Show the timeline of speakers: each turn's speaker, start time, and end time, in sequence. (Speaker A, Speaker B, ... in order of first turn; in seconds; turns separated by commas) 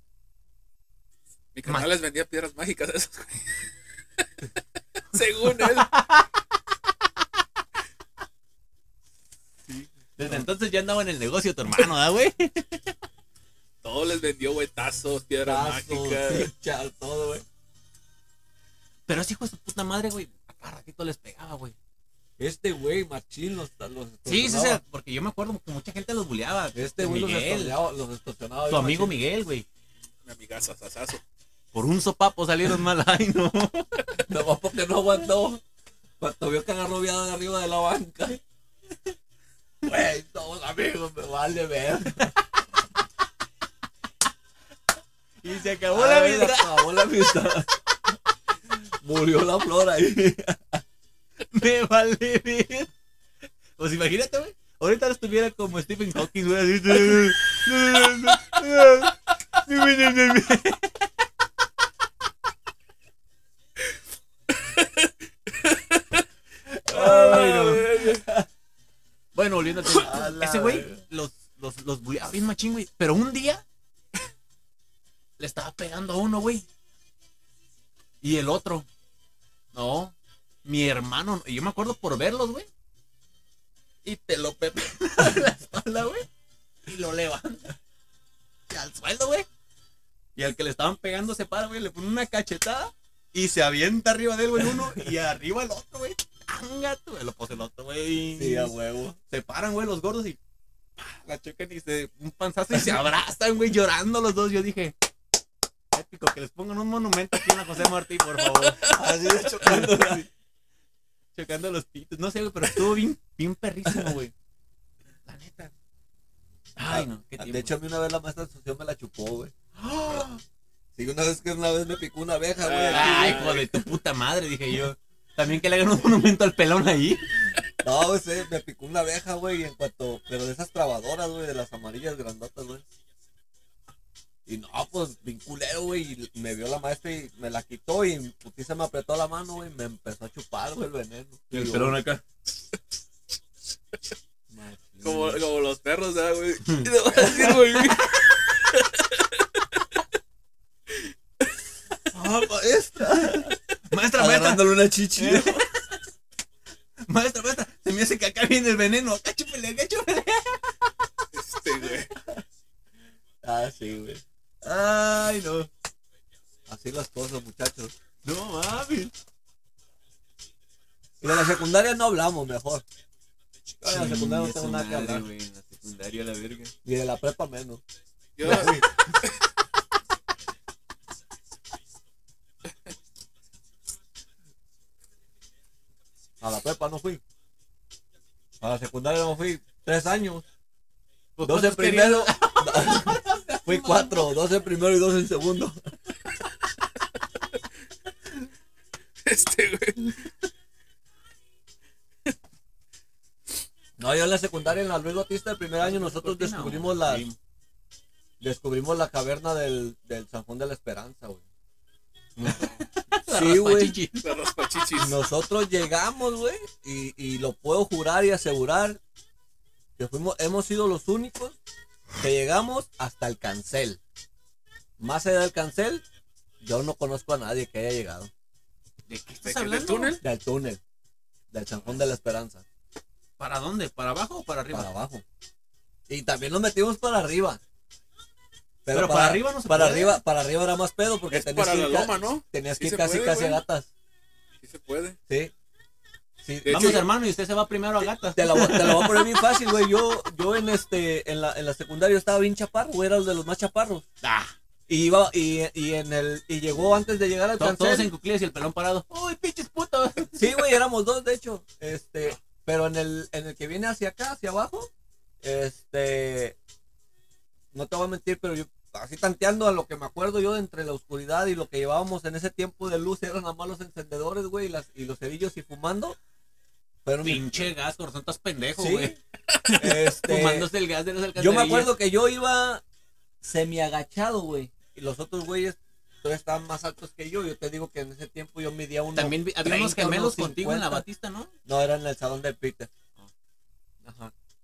Speaker A: 1.5-3.7, Speaker A: 5.1-5.9, Speaker B: 5.9-6.2, Speaker C: 9.7-10.5, Speaker B: 10.2-12.9, Speaker A: 13.8-16.5, Speaker C: 15.4-17.4, Speaker B: 19.1-21.7, Speaker C: 22.4-24.8, Speaker B: 24.3-27.8, Speaker C: 26.7-29.1, Speaker B: 28.7-29.6, Speaker A: 30.2-31.2, Speaker B: 31.7-34.1, Speaker C: 34.3-35.6, Speaker C: 36.2-38.4, Speaker C: 39.8-42.3, Speaker B: 45.4-47.5, Speaker C: 45.9-47.7, Speaker C: 49.0-50.8, Speaker B: 51.5-52.9, Speaker B: 53.8-61.1, Speaker A: 64.5-66.2, Speaker C: 66.7-68.5, Speaker A: 66.9-68.2, Speaker B: 69.3-73.6, Speaker C: 69.9-71.0, Speaker B: 75.4-76.7, Speaker B: 78.2-78.9, Speaker B: 79.7-80.1, Speaker B: 80.6-82.7, Speaker B: 84.0-86.3, Speaker B: 86.9-87.7, Speaker B: 88.7-89.5, Speaker B: 90.3-98.7, Speaker C: 98.3-99.2, Speaker B: 99.3-100.4, Speaker B: 101.0-104.9, Speaker C: 102.7-103.0, Speaker B: 105.9-110.2, Speaker C: 108.8-110.3, Speaker B: 111.3-114.3, Speaker B: 115.3-115.7, Speaker B: 116.8-117.7, Speaker C: 116.8-119.5, Speaker B: 119.8-120.4, Speaker C: 121.0-123.6, Speaker A: 122.6-123.8, Speaker B: 122.9-127.3, Speaker C: 127.8-132.8, Speaker C: 134.4-142.0, Speaker B: 141.5-142.2, Speaker C: 144.5-145.4, Speaker A: 145.0-149.8, Speaker C: 147.2-147.7, Speaker C: 152.1-153.6, Speaker B: 153.2-155.8, Speaker C: 154.1-155.6, Speaker B: 157.1-160.9, Speaker A: 161.3-162.1, Speaker C: 163.4-164.2, Speaker B: 164.6-165.7, Speaker C: 166.7-167.9, Speaker B: 168.2-169.1, Speaker C: 171.2-172.8, Speaker C: 173.8-175.3, Speaker B: 173.9-176.7, Speaker C: 176.8-177.8, Speaker A: 178.4-179.3, Speaker C: 178.4-178.9, Speaker C: 186.4-187.2, Speaker C: 188.6-190.4, Speaker B: 191.4-194.3, Speaker C: 191.4-195.8, Speaker A: 199.2-200.3, Speaker C: 204.0-207.2, Speaker B: 205.8-207.4, Speaker C: 208.4-211.4, Speaker B: 212.4-214.3, Speaker C: 213.3-214.0, Speaker A: 214.2-215.1, Speaker C: 215.0-219.0, Speaker C: 220.0-221.6, Speaker C: 222.2-224.0, Speaker C: 225.0-226.0, Speaker C: 226.6-228.3, Speaker B: 229.1-230.2, Speaker A: 229.4-230.2, Speaker C: 230.2-230.8, Speaker C: 231.5-232.6, Speaker B: 233.4-234.9, Speaker C: 234.7-235.2, Speaker C: 236.1-237.6, Speaker C: 238.8-243.9, Speaker B: 238.9-240.2, Speaker A: 241.3-243.6, Speaker A: 244.6-245.2, Speaker C: 246.4-247.0, Speaker A: 246.6-247.0, Speaker B: 246.7-249.5, Speaker C: 248.2-254.0, Speaker B: 254.2-254.5, Speaker C: 254.9-258.1, Speaker B: 257.6-260.6, Speaker C: 260.4-264.9, Speaker C: 265.4-266.6, Speaker C: 267.7-276.2, Speaker C: 277.0-277.7, Speaker B: 277.2-279.1, Speaker C: 278.8-279.2, Speaker A: 279.5-279.8, Speaker C: 279.7-280.7, Speaker B: 279.8-281.9, Speaker C: 281.4-282.8, Speaker C: 283.4-291.0, Speaker B: 289.1-291.5, Speaker C: 291.6-292.9, Speaker C: 294.0-294.3